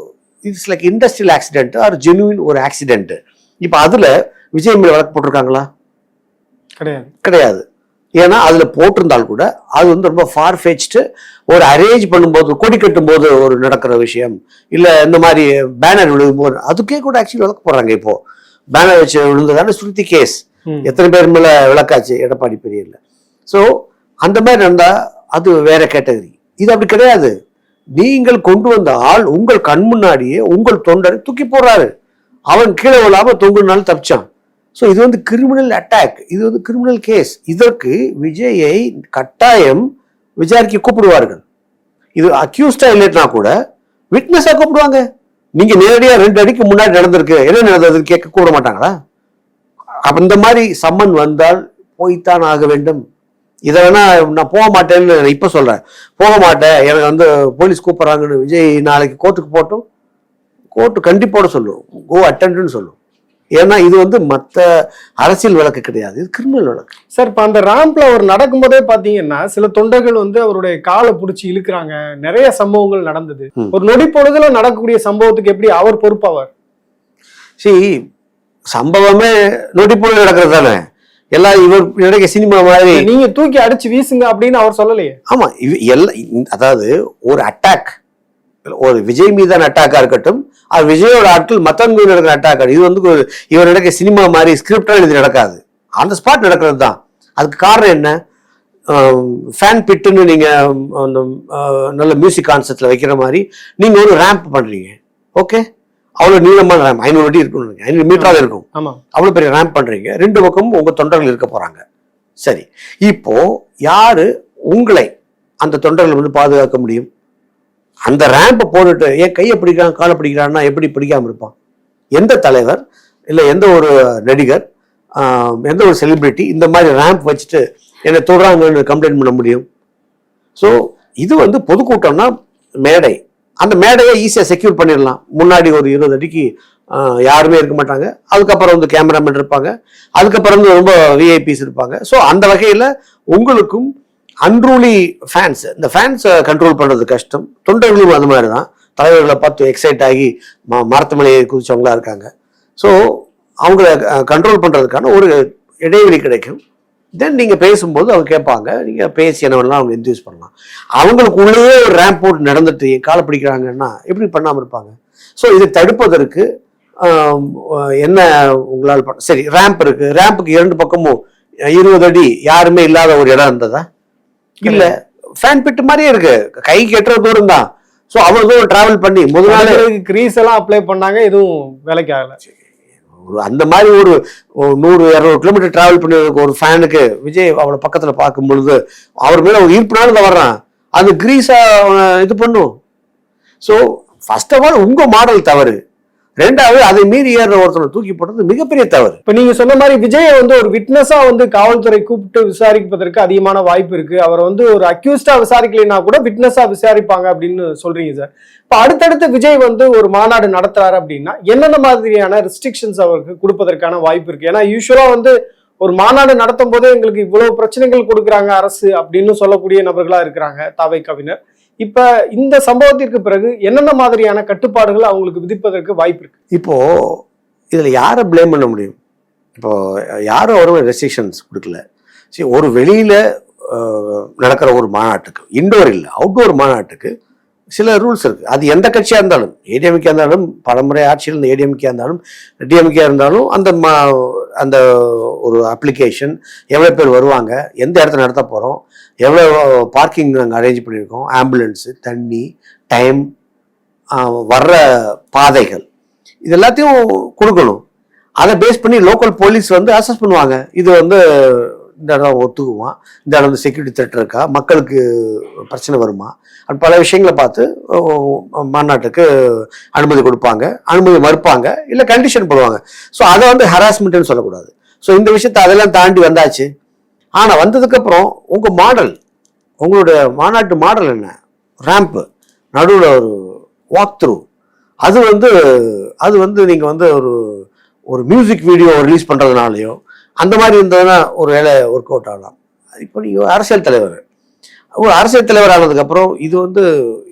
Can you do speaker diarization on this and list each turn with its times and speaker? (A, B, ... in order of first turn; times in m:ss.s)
0:00.4-0:05.6 A
0:06.8-0:07.1 B
0:07.2-0:07.6 A
0:08.2-0:18.2 A
0:18.8-0:23.6 A
0:24.3-0:27.3 A
0:28.0-0:31.9 A
0:32.5-0:34.2 A
0:34.8-0:39.8 A
0:40.4-0:41.4 A
0:42.2-0:43.5 A
0:44.1-0:45.0 A
0:45.6-0:48.9 A
0:50.1-0:53.0 A
0:53.7-0:59.8 A
1:00.7-1:03.0 A
1:03.6-1:04.6 A
1:05.2-1:06.9 A
1:07.2-1:16.5 B
1:17.6-1:17.8 A
1:18.7-1:20.8 A
1:21.4-1:23.1 A
1:22.9-1:25.2 B
1:25.3-1:27.9 A
1:28.8-1:38.1 A
1:38.9-1:45.6 A
1:46.2-1:51.8 A
1:48.2-1:49.0 B
1:52.4-1:55.1 A
1:55.6-1:57.1 A
1:58.1-2:01.5 A
2:02.2-2:04.6 A
2:05.2-2:09.6 A
2:10.6-2:12.3 A
2:12.8-2:23.9 A
2:24.4-2:33.0 A
2:33.6-2:35.4 A
2:35.9-2:36.6 A
2:37.2-2:46.4 A
2:47.0-2:51.2 A
2:51.7-2:53.8 A
2:54.6-2:59.8 A
2:54.7-2:54.9 B
2:59.5-3:02.4 B
3:03.2-3:12.7 A
3:13.6-3:15.8 A
3:16.4-3:19.2 A
3:19.3-3:46.3 B
3:46.6-3:47.2 A
3:47.7-3:49.0 A
3:50.3-3:51.8 A
3:52.3-3:57.1 A
3:57.8-4:13.2 A
4:14.2-4:15.8 A
4:16.4-4:17.8 A
4:18.4-4:29.2 A
4:30.0-4:36.7 A
4:37.4-4:39.2 A
4:39.8-4:41.4 A
4:41.9-4:42.2 A
4:42.8-4:43.3 A
4:44.0-4:44.4 A
4:45.1-4:47.3 A
4:48.1-4:54.2 A
4:55.0-4:56.8 A